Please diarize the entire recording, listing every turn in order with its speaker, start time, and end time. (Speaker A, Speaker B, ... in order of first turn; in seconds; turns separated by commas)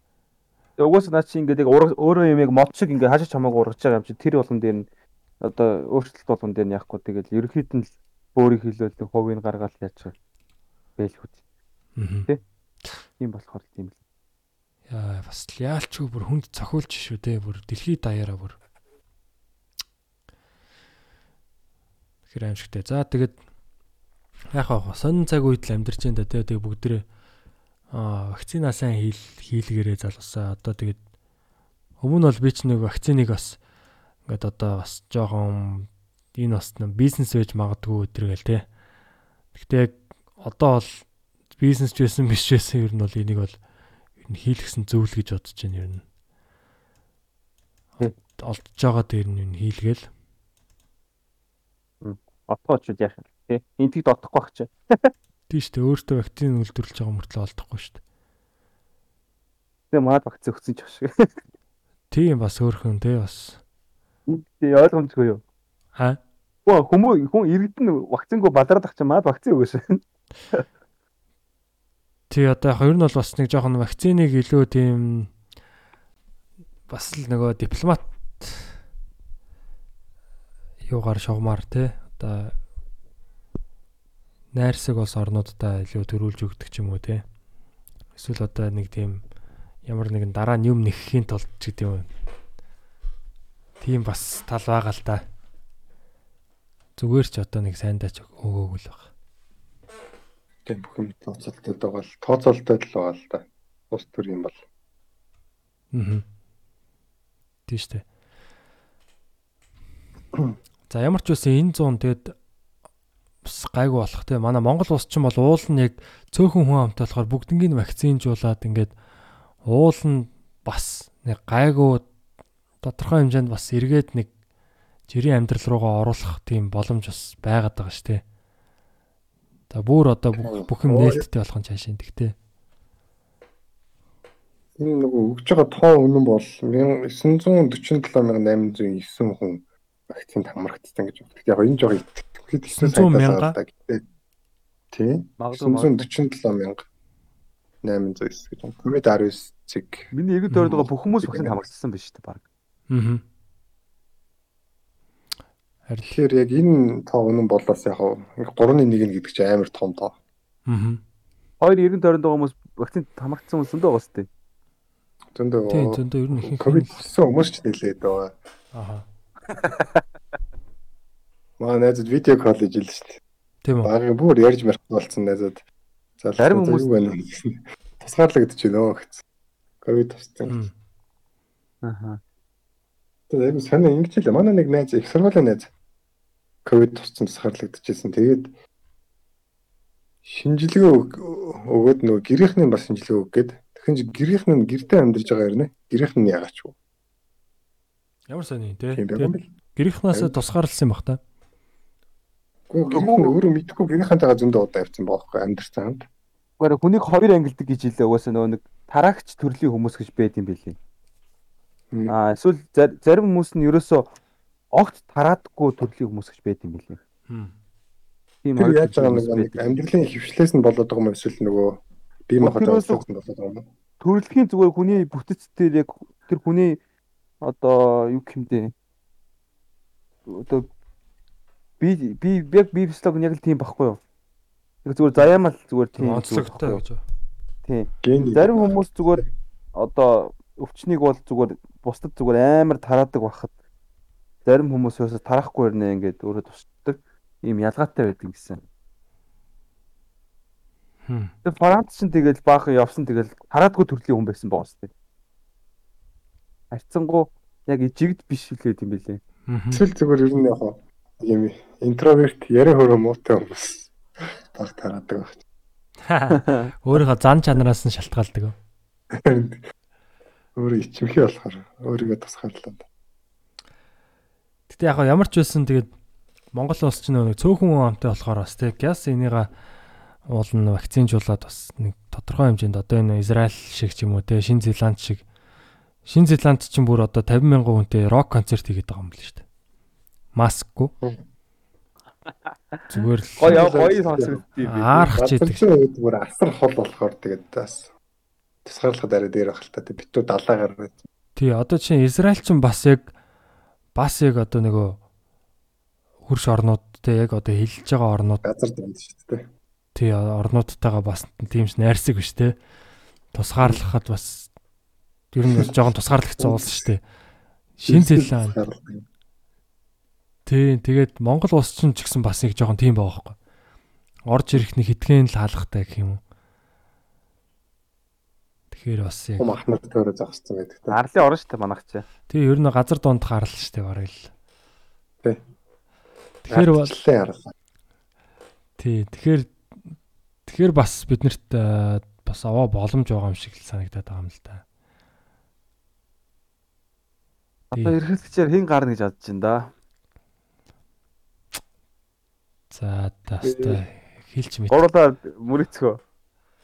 Speaker A: 0.8-4.9, Speaker A: 5.4-10.1, Speaker A: 11.0-11.4, Speaker B: 12.0-12.3, Speaker A: 13.2-14.0, Speaker B: 14.9-18.6, Speaker B: 22.3-23.4, Speaker B: 24.5-27.1, Speaker B: 27.9-31.0, Speaker B: 32.0-33.6, Speaker B: 34.3-38.7, Speaker B: 39.5-41.1, Speaker B: 41.6-43.6, Speaker B: 44.2-46.0, Speaker B: 48.4-50.1, Speaker A: 52.0-55.1, Speaker B: 55.5-58.0, Speaker A: 59.9-61.3, Speaker B: 62.1-63.6, Speaker A: 64.3-65.4, Speaker A: 66.7-70.0, Speaker B: 72.3-75.3, Speaker B: 76.9-78.8, Speaker B: 80.9-82.6, Speaker B: 84.5-87.2, Speaker B: 88.2-89.2, Speaker B: 89.9-92.1, Speaker B: 93.8-95.2, Speaker B: 97.0-99.1, Speaker C: 100.7-104.6, Speaker B: 105.9-106.2, Speaker B: 107.7-108.0, Speaker B: 110.9-112.3, Speaker B: 113.4-118.9, Speaker B: 119.7-122.1, Speaker B: 122.8-124.3, Speaker B: 125.1-128.2, Speaker B: 129.7-132.3, Speaker C: 130.4-131.2, Speaker C: 134.8-144.0, Speaker B: 142.7-143.6, Speaker C: 144.9-146.8, Speaker A: 145.4-146.1, Speaker C: 147.8-150.1, Speaker A: 150.1-152.4, Speaker C: 150.7-151.7, Speaker B: 152.9-153.2, Speaker B: 155.9-156.1, Speaker C: 156.1-160.2, Speaker B: 160.7-161.0, Speaker A: 161.6-164.3, Speaker C: 165.3-168.4, Speaker B: 165.7-167.0, Speaker B: 168.7-169.1, Speaker A: 169.5-170.0, Speaker C: 171.6-173.2, Speaker B: 173.6-173.9, Speaker C: 173.8-175.7, Speaker C: 176.2-179.2, Speaker A: 176.4-176.9, Speaker C: 179.8-180.6, Speaker B: 180.5-180.7, Speaker A: 181.8-182.2, Speaker C: 183.3-185.7, Speaker C: 186.7-188.5, Speaker C: 190.2-196.8, Speaker B: 198.3-201.2, Speaker C: 198.9-199.5, Speaker C: 202.7-206.1, Speaker A: 202.9-203.4, Speaker A: 206.6-210.8, Speaker A: 212.1-214.1, Speaker A: 214.7-217.0, Speaker B: 217.3-217.5, Speaker A: 218.4-219.7, Speaker C: 218.6-223.7, Speaker A: 222.4-223.0, Speaker A: 224.0-226.8, Speaker A: 227.4-228.7, Speaker A: 230.3-230.7, Speaker A: 231.8-234.0, Speaker A: 234.8-236.8, Speaker B: 236.0-237.0, Speaker A: 237.7-239.2, Speaker C: 238.0-239.3, Speaker A: 239.8-243.5, Speaker A: 244.5-248.6, Speaker B: 251.1-251.3, Speaker A: 251.4-254.9, Speaker A: 256.7-259.2, Speaker B: 259.5-259.8, Speaker C: 259.7-265.4, Speaker B: 266.1-268.6, Speaker A: 266.3-266.7, Speaker C: 269.1-269.6, Speaker C: 270.6-272.9, Speaker B: 274.7-275.9, Speaker B: 276.5-279.5, Speaker B: 280.3-285.2, Speaker B: 286.1-289.4, Speaker B: 290.4-290.9, Speaker A: 292.7-295.1, Speaker B: 292.9-293.7, Speaker C: 293.5-294.4, Speaker B: 294.6-295.6, Speaker C: 295.0-297.9, Speaker C: 298.6-301.0, Speaker B: 301.4-303.1, Speaker B: 303.9-305.0, Speaker B: 306.3-308.4, Speaker C: 308.4-309.5, Speaker B: 309.9-312.6, Speaker B: 313.3-314.5, Speaker B: 315.3-317.0, Speaker C: 316.4-316.8, Speaker B: 317.8-318.6, Speaker C: 317.9-319.1, Speaker B: 320.5-323.4, Speaker B: 324.3-326.2, Speaker B: 328.7-329.6, Speaker C: 329.4-331.0, Speaker A: 330.9-332.1, Speaker B: 332.3-334.3, Speaker B: 336.4-336.9, Speaker C: 336.5-337.5, Speaker B: 338.8-339.6, Speaker B: 340.5-344.6, Speaker A: 347.7-349.7, Speaker B: 352.7-354.8, Speaker C: 353.4-353.8, Speaker A: 354.7-356.0